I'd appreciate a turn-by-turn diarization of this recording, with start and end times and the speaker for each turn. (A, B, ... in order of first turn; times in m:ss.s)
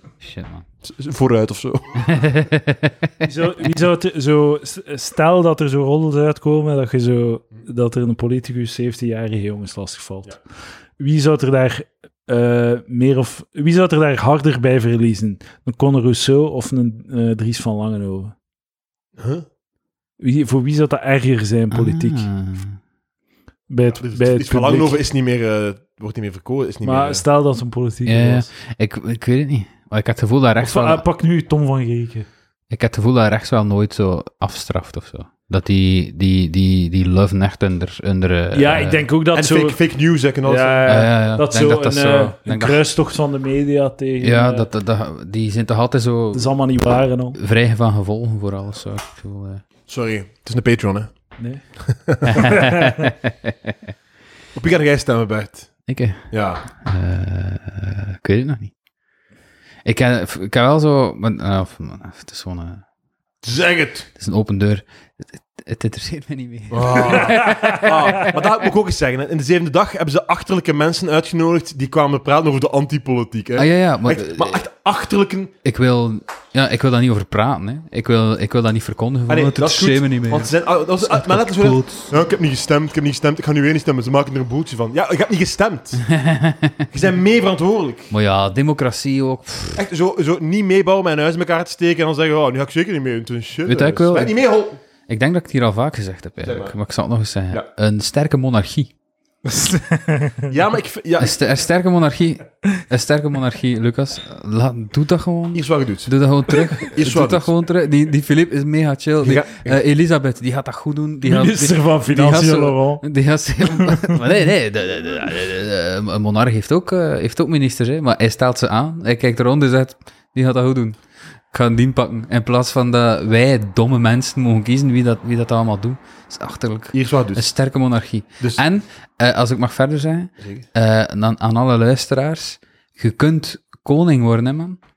0:00.2-0:00.6 A
0:00.8-0:02.0 B
0:02.0-0:02.9 A
0:03.2-0:10.4 C
0:11.0-0:18.3 C
0:19.2-0:19.4 B
0:20.2-0:22.3 C
0:21.7-0:22.8 A
0:23.7-0:25.0 C
0:23.9-0:27.2 B
0:26.8-0:28.5 C
0:28.0-0:31.0 A
0:30.6-0:32.3 C
0:32.7-0:39.1 A
0:38.5-0:39.8 C
0:39.3-0:41.0 B
0:40.4-0:44.7 C
0:40.8-0:42.8 A
0:44.2-0:46.5 A
0:46.3-0:47.4 C
0:47.4-0:49.6 A
0:49.9-0:51.1 B
0:51.4-0:51.6 C
0:51.8-0:52.5 B
0:52.3-0:53.7 A
0:52.3-0:53.0 C
0:54.5-0:55.7 B
0:55.9-0:58.7 A
0:56.3-0:56.6 B
0:59.8-1:02.8 A
1:03.4-1:04.1 B
1:04.2-1:08.4 A
1:06.7-1:15.5 B
1:07.4-1:07.7 C
1:13.6-1:14.6 A
1:15.6-1:22.1 A
1:19.3-1:26.0 B
1:26.0-1:26.9 A
1:26.9-1:28.1 B
1:28.1-1:29.8 A
1:29.7-1:34.8 B
1:33.6-1:34.3 A
1:35.1-1:38.9 A
1:36.4-1:36.7 B
1:39.4-1:40.5 C
1:40.5-1:41.4 B
1:41.2-2:01.0 A
1:45.5-1:46.1 B
1:46.9-1:47.5 B
1:49.2-1:49.8 B
1:51.2-1:53.0 C
1:53.7-1:54.2 C
2:01.5-2:14.8 A
2:06.9-2:07.5 B
2:10.4-2:10.6 B